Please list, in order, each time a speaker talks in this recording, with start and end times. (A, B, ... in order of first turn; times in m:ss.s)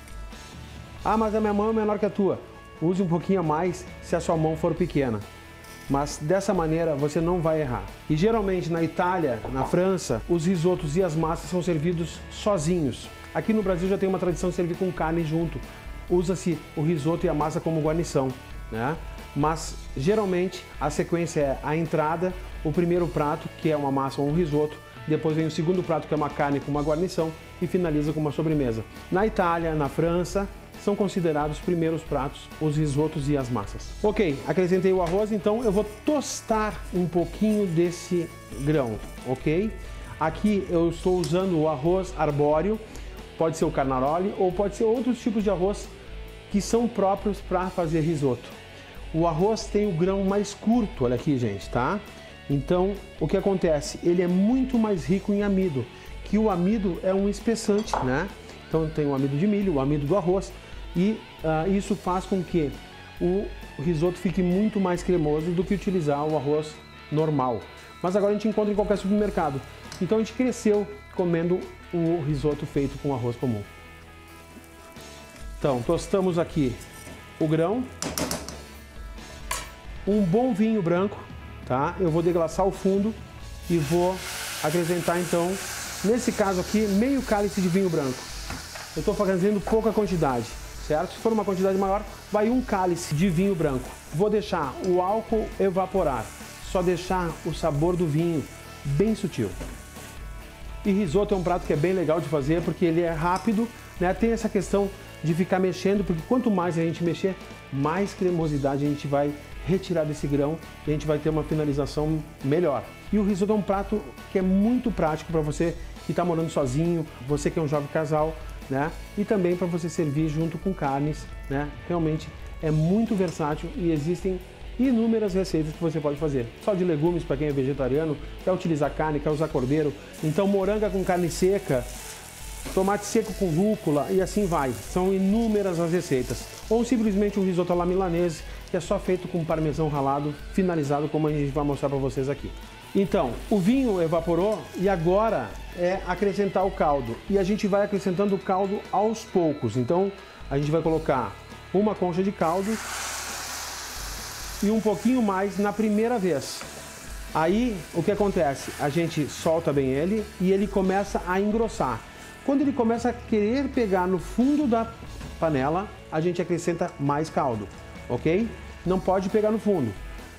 0:01.0-0:05.2 A
0:05.9-0:42.8 A
0:43.4-0:45.9 A
0:46.5-0:48.6 A
0:49.1-1:13.7 A
1:15.6-1:16.8 A
1:17.4-1:17.9 A
1:20.0-1:28.3 A
1:28.9-1:39.6 A
1:40.8-2:11.9 A
2:12.7-2:32.8 A
2:34.6-2:36.7 A
2:37.3-2:50.0 A